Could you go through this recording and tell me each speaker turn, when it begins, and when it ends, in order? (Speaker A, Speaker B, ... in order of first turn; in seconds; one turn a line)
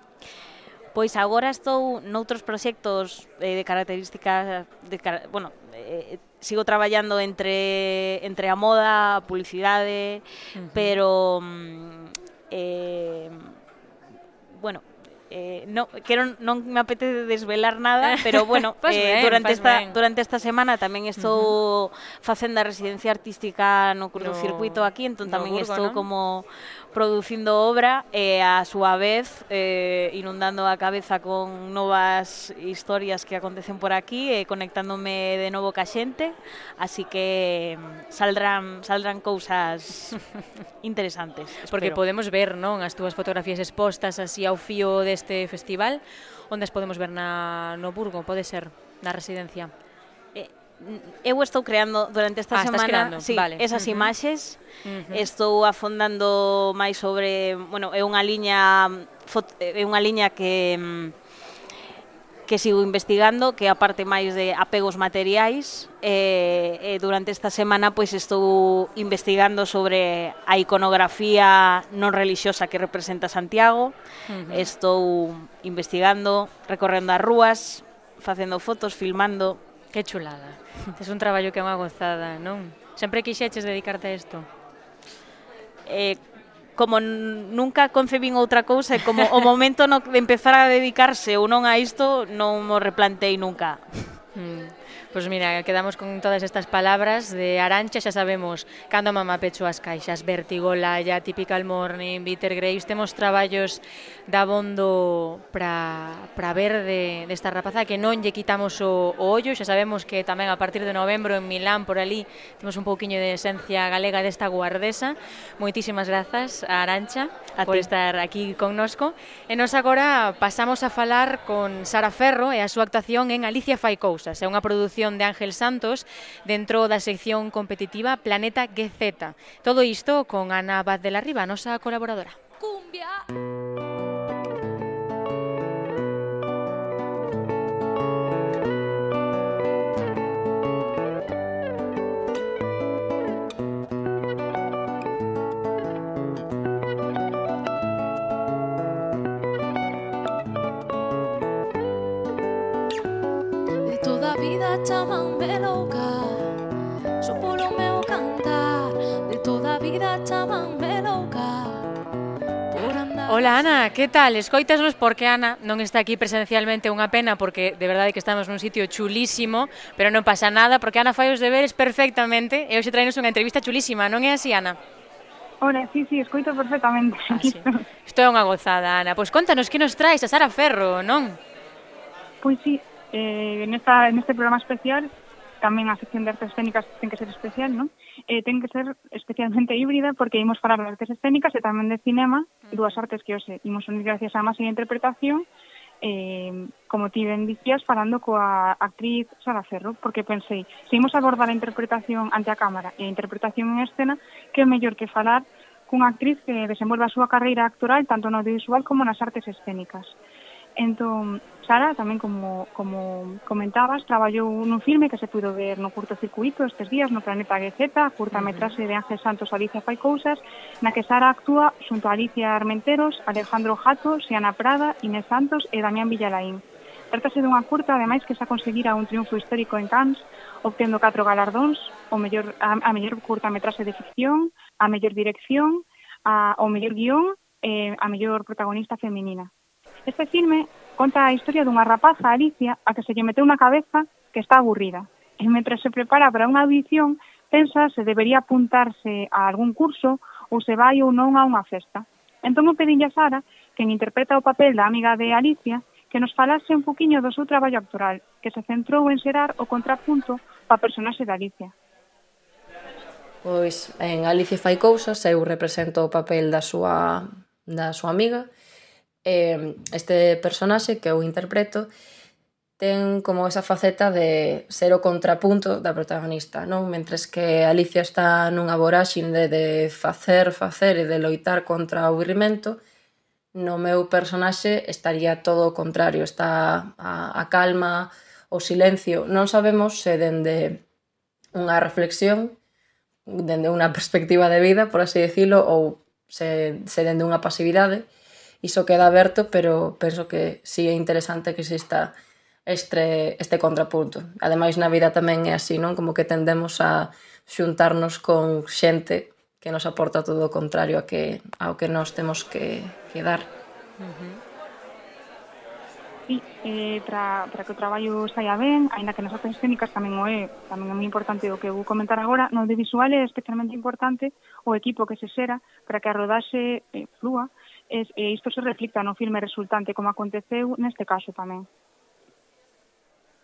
Speaker A: 0.9-13.5
Speaker B: 10.5-10.9
Speaker A: 14.5-40.2
Speaker B: 18.0-20.0
Speaker B: 21.2-21.6
Speaker B: 24.1-26.0
Speaker A: 40.8-42.0
Speaker B: 41.6-49.7
Speaker A: 50.3-54.6
Speaker B: 52.5-54.1
Speaker B: 54.8-55.2
Speaker A: 55.1-61.1
Speaker A: 62.5-73.9
Speaker B: 74.3-74.7
Speaker A: 74.5-79.6
Speaker B: 79.9-84.5
Speaker A: 85.8-86.2
Speaker A: 86.8-93.8
Speaker B: 94.3-132.4
Speaker A: 117.6-117.9
Speaker C: 132.6-133.2
Speaker C: 153.8-156.5
Speaker C: 157.2-161.9
Speaker C: 162.7-163.8
Speaker B: 163.3-174.8
Speaker D: 175.6-177.7
Speaker B: 177.3-181.4
Speaker D: 182.4-185.1
Speaker D: 185.6-195.5
Speaker B: 192.7-193.0
Speaker D: 196.0-210.2
Speaker D: 210.8-239.5
Speaker B: 218.3-218.8
Speaker D: 240.1-261.7
Speaker E: 263.4-268.5
Speaker E: 269.2-271.9
Speaker E: 272.8-282.8
Speaker E: 283.5-290.8
Speaker E: 291.5-292.6
Speaker E: 293.3-298.1
Speaker E: 298.6-302.1
Speaker E: 302.6-313.5
Speaker B: 314.0-314.4
Speaker D: 316.3-331.7